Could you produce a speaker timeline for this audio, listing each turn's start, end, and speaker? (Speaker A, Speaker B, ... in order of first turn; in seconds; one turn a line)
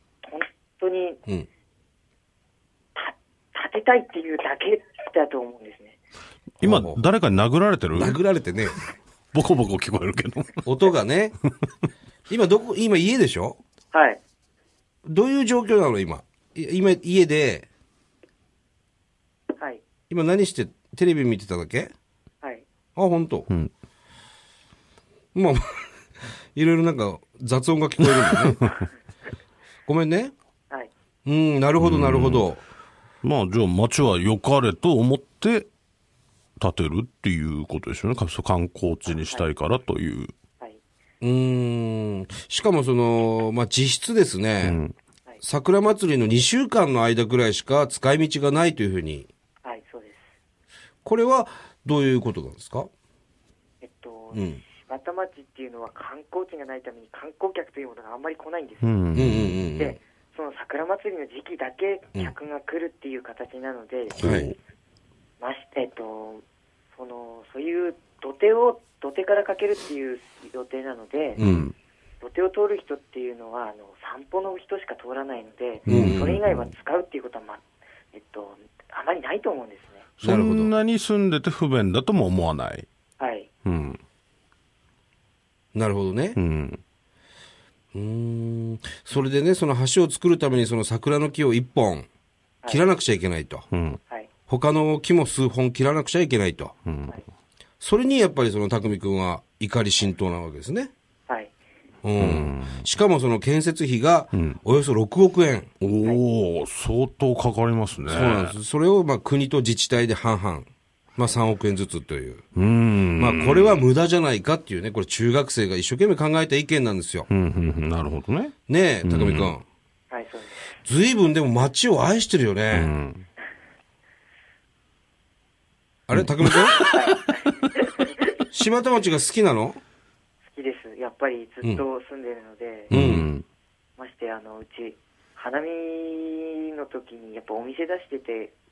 Speaker A: 0.2-1.2
Speaker A: 3.0-5.9
Speaker B: 6.6-8.2
Speaker C: 6.6-7.0
Speaker C: 7.9-8.8
Speaker B: 9.3-10.7
Speaker C: 10.6-11.3
Speaker C: 12.3-13.6
Speaker A: 13.9-14.2
Speaker C: 15.0-17.7
Speaker C: 20.1-21.9
Speaker C: 22.9-23.5
Speaker C: 25.3-25.8
Speaker C: 26.5-28.7
Speaker C: 29.9-30.3
Speaker C: 31.2-32.6
Speaker B: 31.8-32.5
Speaker B: 33.2-35.7
Speaker B: 36.6-40.3
Speaker C: 41.2-44.8
Speaker B: 44.6-44.9
Speaker C: 45.4-49.3
Speaker A: 49.6-50.2
Speaker C: 51.0-52.9
Speaker A: 53.8-59.1
Speaker C: 54.3-54.6
Speaker B: 58.8-59.6
Speaker C: 59.1-60.0
Speaker A: 59.8-64.2
Speaker B: 64.1-64.5
Speaker C: 64.2-64.5
Speaker A: 65.4-66.4
Speaker A: 66.9-71.4
Speaker C: 71.4-71.7
Speaker B: 71.4-71.7
Speaker A: 72.2-77.6
Speaker C: 75.8-76.4
Speaker B: 75.8-76.7
Speaker A: 78.1-80.0
Speaker B: 80.2-82.9
Speaker C: 80.2-80.7
Speaker A: 83.2-83.5
Speaker B: 83.6-84.0
Speaker C: 85.7-86.4
Speaker B: 86.3-86.8
Speaker C: 87.9-92.1
Speaker C: 92.7-93.7
Speaker B: 93.7-94.0
Speaker C: 94.5-96.7
Speaker B: 96.8-97.2
Speaker C: 97.8-100.9
Speaker C: 102.0-105.7
Speaker B: 102.2-102.8
Speaker B: 104.3-104.6
Speaker B: 105.8-108.5
Speaker C: 108.1-112.4
Speaker B: 112.5-113.8
Speaker C: 113.2-117.3
Speaker B: 117.3-119.5
Speaker C: 118.7-119.6
Speaker A: 120.1-120.8
Speaker C: 120.8-122.9
Speaker B: 122.7-123.2
Speaker C: 126.1-126.9
Speaker B: 126.1-127.2
Speaker A: 126.8-128.2
Speaker C: 128.5-129.8
Speaker A: 130.5-132.9
Speaker C: 132.9-133.3
Speaker B: 132.9-133.4
Speaker A: 134.0-138.5